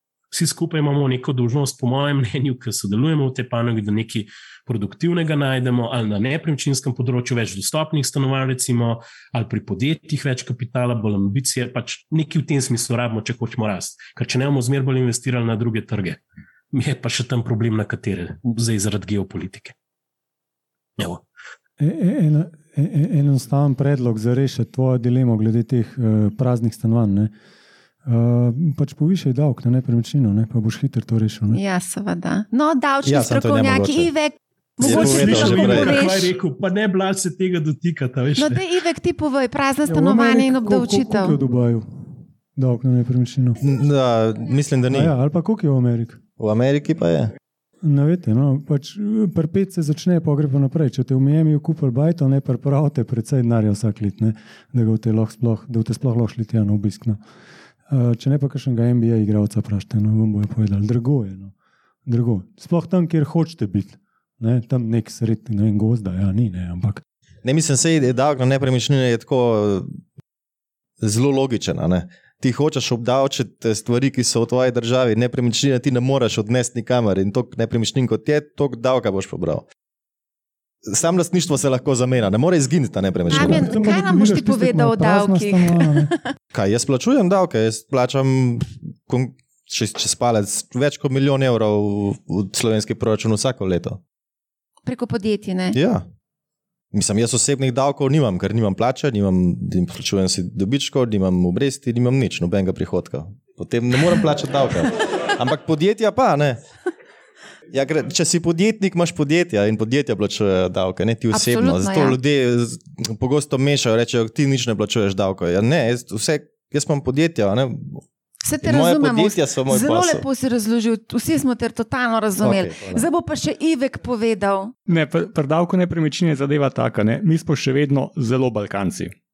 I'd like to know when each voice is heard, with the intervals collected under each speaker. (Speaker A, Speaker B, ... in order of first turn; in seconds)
Speaker A: 0.3-16.2, 16.7-19.7, 21.0-21.2, 34.8-38.6
Speaker B: 21.8-27.3, 28.1-31.6, 39.9-43.6, 44.9-46.2, 47.8-57.2, 57.9-61.5, 62.0-67.0, 83.3-86.1
Speaker C: 31.5-36.3, 38.4-41.4, 83.3-86.2, 94.8-95.8, 111.3-112.1, 118.4-124.7
Speaker D: 33.0-34.1, 34.8-35.9, 43.6-45.1, 46.4-47.3, 67.4-69.9, 71.0-79.7, 80.8-83.8, 86.5-94.0, 95.7-96.0, 96.9-106.6, 107.7-118.0, 118.6-120.2, 122.4-123.0
Speaker E: 124.9-129.1